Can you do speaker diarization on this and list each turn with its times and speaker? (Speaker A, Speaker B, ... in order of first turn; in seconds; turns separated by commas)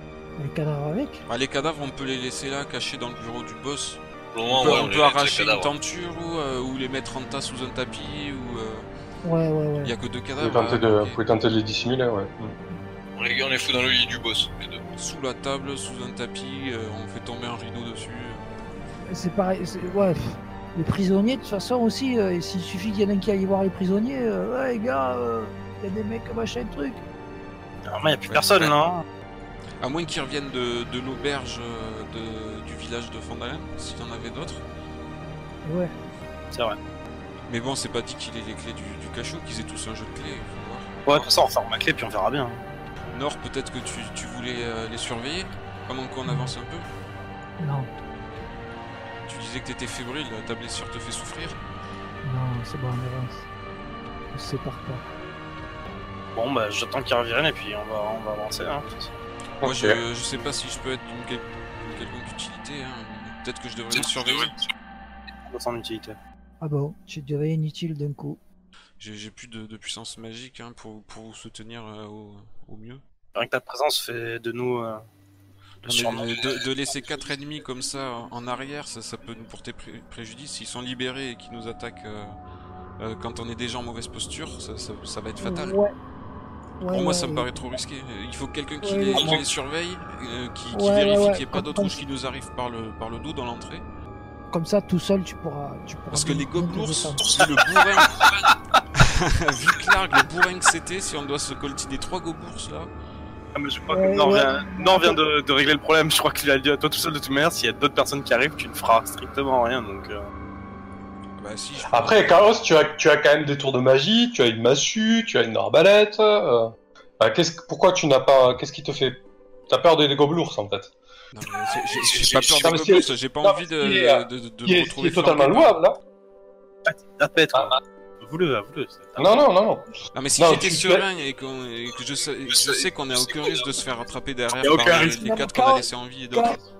Speaker A: 0.4-1.2, Speaker B: 1.3-8.9, Speaker C: 4.3-5.7, Speaker A: 9.2-9.9, Speaker B: 9.8-11.2, Speaker D: 10.4-12.6, Speaker C: 13.2-14.8, Speaker B: 14.9-18.4, Speaker A: 19.1-27.0, Speaker E: 27.9-29.0, Speaker B: 28.3-28.7, Speaker B: 29.8-34.6, Speaker A: 35.6-35.9, Speaker E: 36.5-36.8, Speaker B: 37.5-40.9, Speaker E: 41.0-42.6, Speaker B: 43.1-46.9, Speaker A: 46.2-46.5, Speaker A: 47.6-47.9, Speaker B: 49.3-51.6, Speaker A: 52.2-53.5, Speaker A: 54.3-55.0, Speaker E: 56.3-59.1, Speaker B: 59.6-64.5, Speaker D: 59.6-60.0, Speaker C: 63.9-64.5, Speaker E: 65.4-66.2, Speaker A: 66.6-68.4, Speaker B: 69.0-73.0, Speaker E: 73.3-75.0, Speaker E: 75.8-76.3, Speaker B: 75.9-82.3, Speaker B: 83.0-85.8, Speaker A: 85.4-85.9, Speaker A: 86.8-87.6, Speaker B: 86.9-93.8, Speaker A: 88.8-89.4, Speaker A: 90.7-92.0, Speaker A: 94.5-97.2, Speaker B: 96.1-98.2, Speaker B: 98.9-102.9, Speaker E: 103.5-110.3, Speaker A: 103.9-105.2, Speaker B: 111.4-112.4, Speaker D: 111.9-120.9, Speaker B: 121.3-125.8, Speaker D: 122.1-126.0, Speaker E: 126.8-129.4, Speaker D: 129.2-129.8, Speaker B: 130.1-136.6, Speaker D: 130.4-131.1, Speaker C: 132.7-133.6, Speaker E: 134.6-135.2, Speaker A: 135.2-136.6